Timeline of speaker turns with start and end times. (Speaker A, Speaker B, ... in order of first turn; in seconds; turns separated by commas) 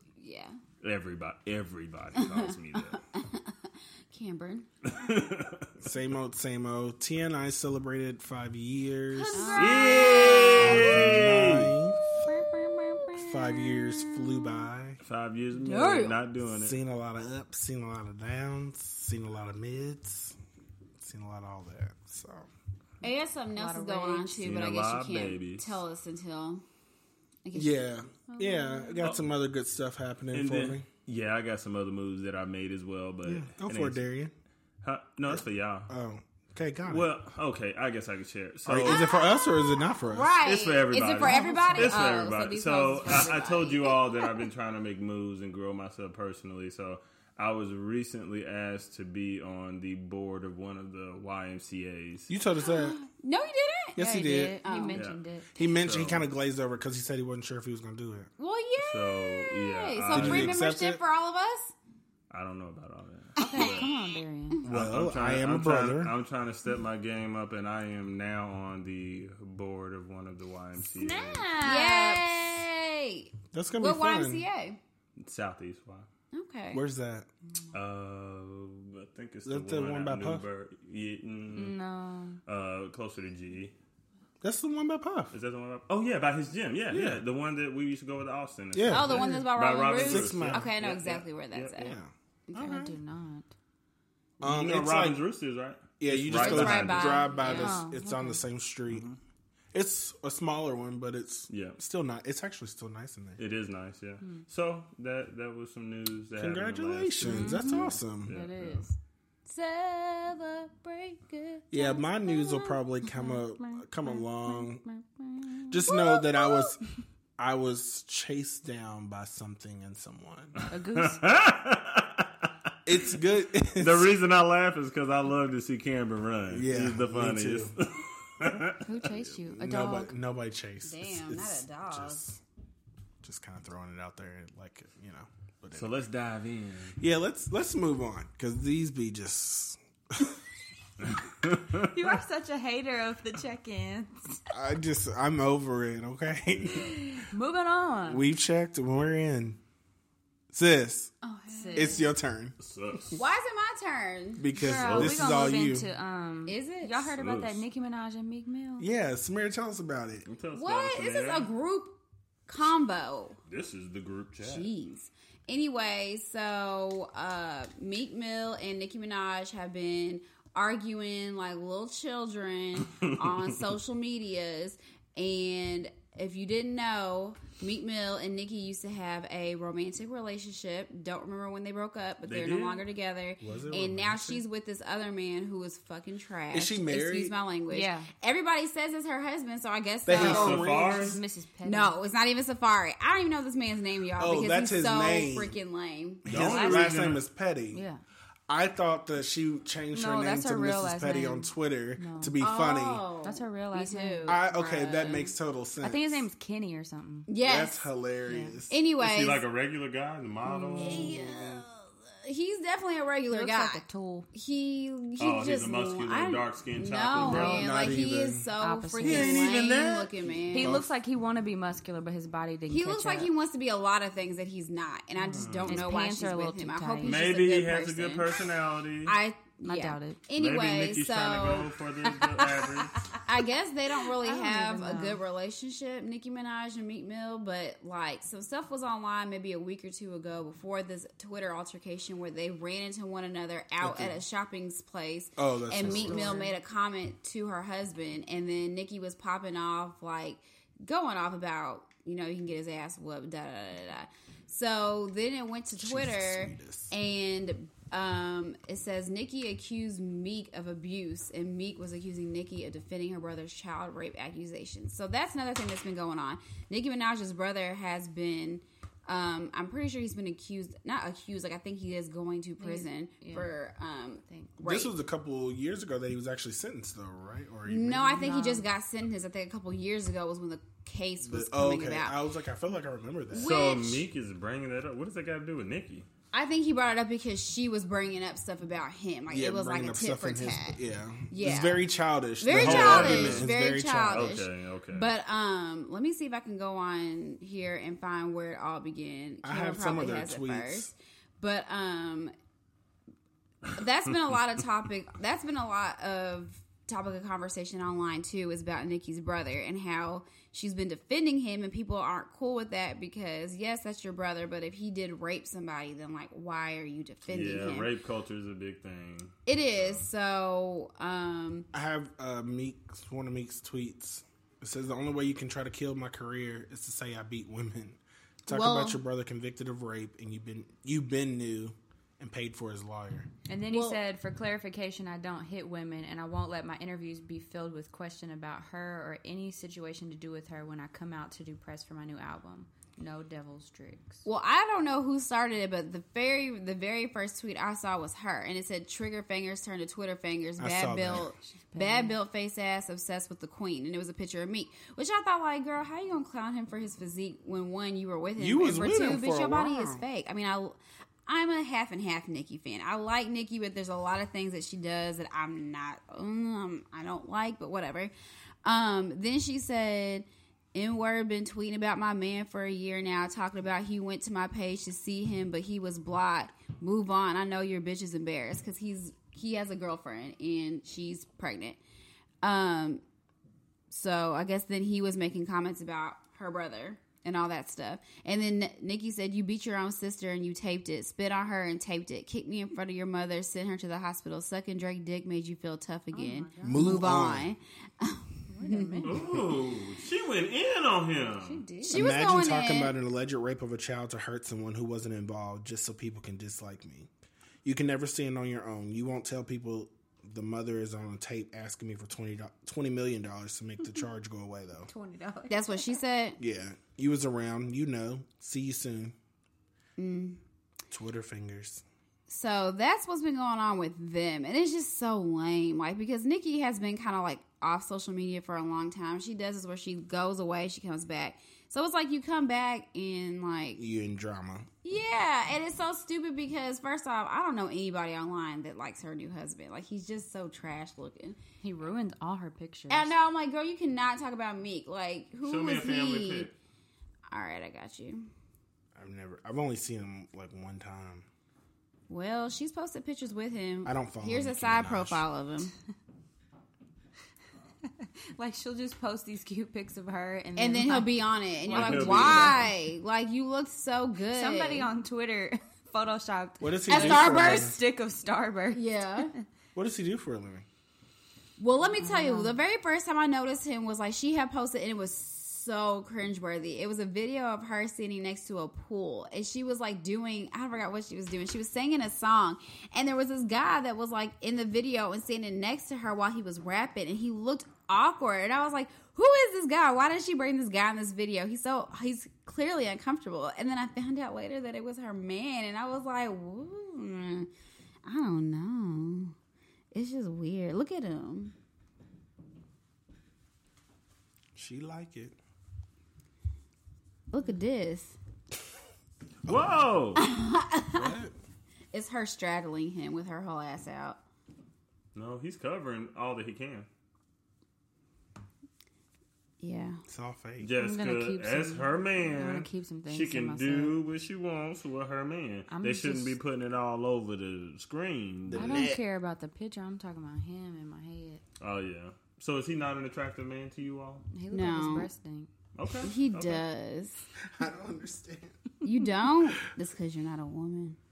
Speaker A: 0.2-0.6, Speaker B: 0.8-3.0, Speaker A: 2.2-4.7, Speaker B: 4.9-5.7, Speaker C: 5.8-9.5, Speaker A: 9.2-11.2, Speaker D: 9.3-10.6, Speaker B: 9.5-11.7, Speaker C: 10.6-12.0, Speaker A: 12.3-13.2, Speaker D: 12.3-13.0, Speaker C: 13.2-15.0, Speaker B: 15.0-16.8, Speaker A: 15.6-16.1, Speaker C: 16.5-20.4, Speaker C: 21.0-22.5, Speaker A: 23.0-26.6, Speaker D: 23.5-24.5, Speaker B: 24.4-25.8, Speaker A: 27.4-29.0, Speaker C: 27.5-30.9, Speaker B: 30.3-34.0, Speaker C: 33.2-34.3, Speaker B: 34.8-35.9, Speaker C: 35.3-37.1, Speaker B: 36.9-39.0, Speaker C: 38.6-40.4, Speaker A: 38.8-44.0, Speaker B: 40.4-52.3, Speaker D: 41.2-42.1, Speaker D: 43.0-43.4, Speaker C: 52.3-53.0, Speaker A: 52.6-54.0, Speaker C: 54.0-54.6, Speaker D: 54.0-55.7, Speaker A: 54.6-55.0, Speaker B: 54.9-55.2, Speaker C: 55.5-58.3, Speaker B: 55.7-56.3, Speaker A: 58.4-61.7, Speaker B: 58.8-60.6, Speaker C: 60.1-61.0, Speaker B: 62.3-63.9, Speaker A: 63.4-64.1, Speaker D: 63.4-64.6, Speaker C: 64.7-66.1, Speaker B: 64.7-71.5, Speaker D: 70.8-72.6, Speaker A: 71.6-74.8, Speaker C: 73.5-74.5, Speaker B: 75.2-76.1, Speaker A: 76.3-76.8, Speaker C: 76.7-77.3, Speaker B: 77.7-81.8, Speaker C: 79.5-80.4, Speaker D: 81.5-82.4, Speaker B: 82.5-83.7, Speaker C: 84.4-85.3, Speaker B: 85.3-91.9, Speaker C: 86.9-87.2, Speaker C: 88.7-90.7, Speaker A: 88.9-91.9, Speaker C: 91.8-92.1, Speaker A: 92.5-93.0, Speaker D: 92.5-93.5, Speaker C: 94.4-95.2, Speaker B: 94.4-97.3, Speaker C: 96.0-99.1, Speaker A: 96.3-97.8, Speaker D: 97.4-98.4, Speaker C: 99.7-103.4, Speaker B: 101.5-101.8, Speaker B: 103.4-108.8, Speaker C: 106.4-108.3, Speaker D: 107.3-108.9, Speaker A: 109.5-112.8, Speaker C: 111.7-114.8, Speaker D: 113.0-115.8, Speaker C: 115.7-116.8, Speaker A: 115.8-116.7, Speaker C: 117.4-120.6, Speaker B: 120.6-122.3, Speaker D: 120.7-121.2, Speaker C: 122.8-124.1, Speaker B: 123.8-128.8, Speaker C: 126.5-127.7, Speaker D: 128.8-130.1, Speaker C: 129.0-132.4, Speaker A: 130.8-132.2, Speaker C: 133.2-135.9, Speaker B: 135.7-137.0, Speaker C: 137.0-140.4, Speaker B: 141.1-141.7, Speaker D: 141.8-144.4, Speaker C: 144.5-147.0, Speaker D: 147.1-148.2, Speaker C: 148.1-149.6, Speaker C: 150.5-151.1, Speaker A: 151.2-152.1, Speaker D: 151.5-152.1, Speaker C: 151.7-152.6, Speaker B: 152.6-153.2, Speaker A: 153.1-154.4, Speaker C: 154.4-155.9, Speaker D: 154.5-158.9, Speaker B: 154.7-155.3, Speaker A: 156.5-157.1, Speaker B: 157.2-157.6, Speaker C: 158.8-160.3, Speaker B: 160.2-161.5, Speaker A: 160.5-163.4, Speaker B: 163.5-164.7, Speaker A: 164.4-190.8, Speaker B: 182.2-182.8, Speaker C: 183.4-184.4, Speaker C: 186.5-187.3, Speaker D: 187.7-188.1, Speaker C: 190.1-191.2, Speaker D: 190.1-191.9, Speaker B: 190.1-191.2, Speaker A: 191.6-196.2, Speaker C: 194.2-195.6, Speaker C: 196.2-197.8, Speaker B: 196.3-197.2, Speaker D: 196.4-196.9, Speaker D: 197.7-198.0, Speaker C: 198.5-203.0, Speaker D: 199.9-202.3, Speaker A: 202.4-205.3, Speaker D: 203.2-204.4, Speaker C: 204.3-206.2, Speaker D: 205.8-207.3, Speaker A: 207.3-207.9, Speaker C: 207.3-208.8, Speaker D: 208.3-208.6, Speaker A: 208.7-209.4, Speaker B: 209.0-211.1, Speaker D: 210.4-211.2, Speaker A: 210.8-220.8, Speaker C: 211.2-211.5, Speaker D: 213.3-214.3, Speaker B: 215.2-217.7, Speaker D: 217.2-217.7, Speaker C: 217.2-218.5, Speaker D: 218.6-219.4, Speaker B: 219.0-220.8, Speaker D: 220.5-223.3, Speaker A: 222.7-228.4, Speaker B: 225.2-225.8, Speaker D: 225.7-227.2, Speaker B: 227.0-229.2, Speaker A: 229.1-274.9, Speaker D: 229.6-230.2, Speaker B: 230.4-233.0, Speaker D: 234.2-235.2, Speaker C: 243.8-244.2, Speaker C: 245.4-246.4, Speaker D: 245.8-246.5, Speaker C: 255.7-256.9, Speaker D: 272.6-273.5, Speaker D: 274.2-274.5, Speaker C: 274.6-278.3, Speaker A: 277.7-282.1, Speaker D: 278.1-278.7, Speaker C: 281.2-283.5, Speaker B: 283.3-286.1, Speaker A: 283.4-284.1, Speaker A: 286.3-290.8, Speaker C: 289.3-294.3, Speaker A: 291.3-291.8, Speaker A: 292.4-302.3, Speaker B: 292.5-293.5, Speaker B: 294.1-295.1, Speaker C: 299.4-300.9, Speaker A: 303.7-317.9, Speaker B: 317.3-319.3, Speaker A: 319.4-321.7, Speaker C: 321.7-333.3, Speaker A: 328.5-329.0, Speaker D: 333.5-344.2, Speaker A: 333.7-334.0, Speaker A: 344.2-368.1, Speaker C: 350.6-351.3, Speaker D: 351.1-352.2, Speaker C: 358.4-360.0, Speaker A: 368.6-381.8, Speaker A: 382.4-383.0, Speaker A: 383.9-399.1, Speaker D: 396.1-397.0, Speaker C: 396.6-397.5, Speaker D: 398.5-399.2, Speaker B: 399.0-401.6, Speaker D: 401.4-402.0, Speaker A: 401.8-402.9, Speaker C: 401.9-407.1, Speaker C: 407.6-414.9, Speaker D: 414.9-415.9, Speaker A: 415.5-416.4, Speaker C: 416.4-419.1, Speaker A: 420.0-420.4, Speaker C: 420.9-421.8, Speaker A: 422.3-433.8, Speaker C: 433.8-434.7, Speaker A: 434.8-441.4, Speaker D: 441.6-443.1, Speaker A: 442.9-446.5, Speaker B: 445.4-446.5, Speaker A: 447.3-448.3, Speaker C: 448.9-451.2, Speaker A: 452.1-455.7, Speaker C: 453.8-455.2, Speaker D: 458.0-462.7, Speaker A: 460.6-464.9, Speaker B: 461.7-462.6, Speaker D: 464.3-469.4, Speaker C: 466.6-467.7, Speaker A: 466.9-467.8, Speaker A: 468.7-469.3, Speaker C: 469.7-470.6, Speaker A: 471.6-497.5, Speaker D: 472.0-472.6, Speaker A: 498.0-499.3, Speaker A: 499.9-501.5, Speaker C: 504.5-505.4, Speaker A: 507.3-508.2, Speaker C: 509.4-509.7, Speaker B: 509.4-510.2, Speaker A: 510.2-511.1, Speaker C: 510.9-511.3, Speaker A: 511.9-514.2, Speaker B: 515.1-516.9, Speaker A: 519.6-520.0, Speaker C: 520.1-520.7, Speaker B: 520.6-528.9, Speaker D: 520.8-524.0, Speaker D: 525.7-526.3, Speaker C: 528.5-529.0, Speaker D: 528.5-531.4, Speaker B: 531.6-534.2, Speaker D: 534.3-535.5, Speaker A: 534.5-535.1, Speaker B: 535.7-536.6, Speaker A: 536.0-537.2, Speaker C: 537.5-538.6, Speaker A: 538.8-541.0